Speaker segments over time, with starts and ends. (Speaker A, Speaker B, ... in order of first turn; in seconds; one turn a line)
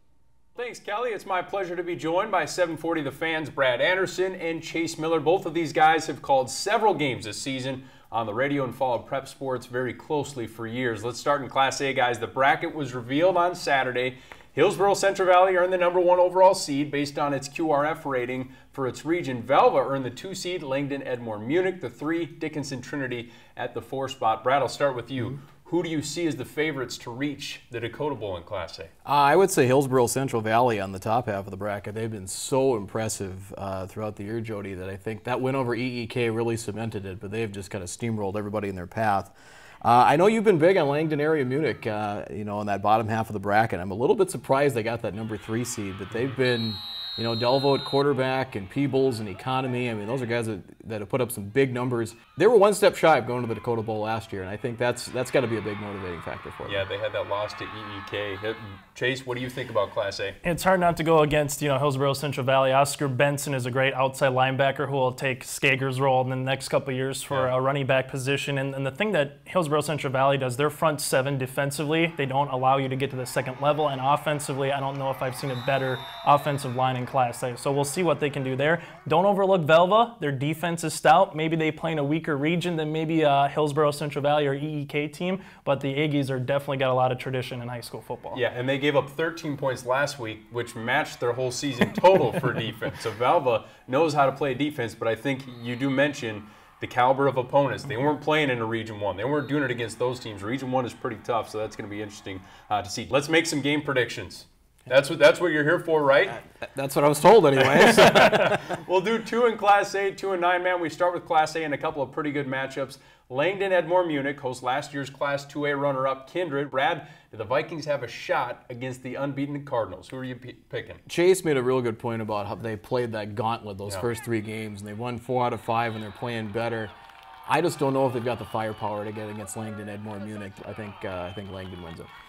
Speaker A: 0.6-28.9
Speaker B: 29.1-56.8
Speaker A: 56.6-60.4
Speaker C: 60.4-88.4
Speaker A: 88.3-106.4
Speaker B: 106.3-108.7
Speaker A: 107.7-121.0
Speaker B: 121.1-126.9
Speaker B: 127.5-132.1